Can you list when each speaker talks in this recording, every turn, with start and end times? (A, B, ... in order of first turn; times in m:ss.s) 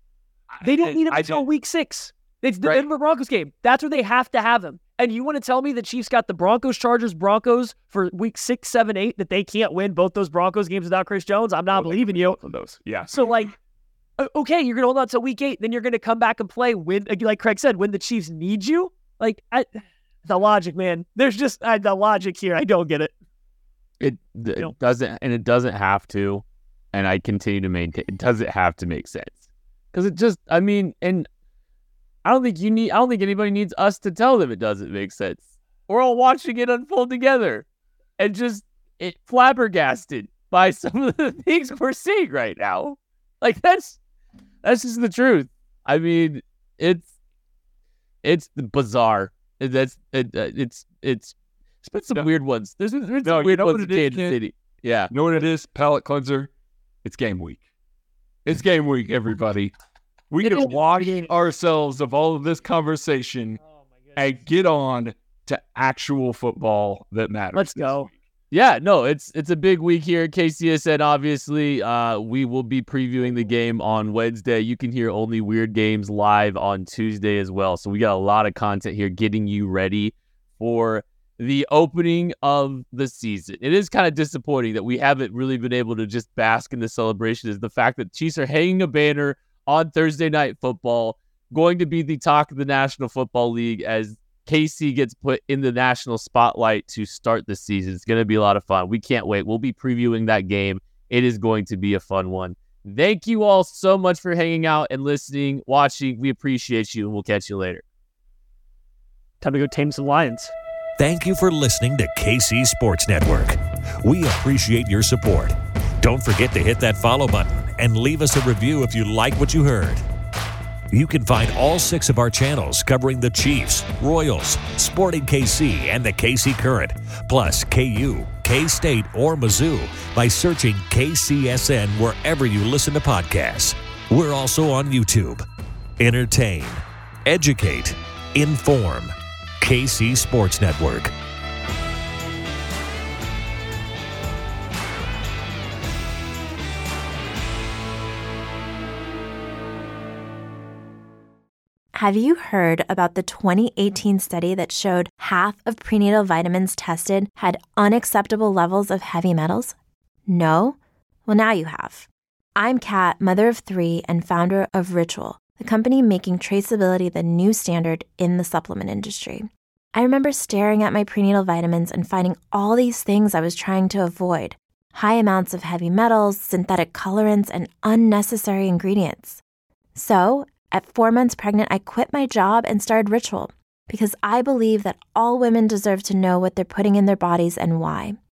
0:00.5-0:01.4 A
0:00.6-0:12.4 B
0:11.7-0:13.5 A
0:13.1-0:13.5 B
0:14.2-0:23.1 B
0:24.0-0:29.4 C
0:29.9-0:31.3 C
0:32.2-0:37.6 C
0:38.2-0:44.0 C
0:44.6-0:47.1 C
0:48.2-0:55.1 C
0:53.2-0:54.4 A
0:55.1-0:56.5 A
0:57.0-0:57.6 A
0:58.4-0:59.7 A
1:00.3-1:03.6 A
1:00.4-1:01.3 B
1:04.2-1:08.1 A
1:07.5-1:08.1 B
1:08.5-1:47.8 C
1:49.4-1:50.5 B
1:51.0-2:00.0 D
2:00.9-2:15.4 D
2:16.0-2:21.1 D
2:31.9-2:39.7 E
2:40.3-2:59.4 E
2:59.9-3:08.2 E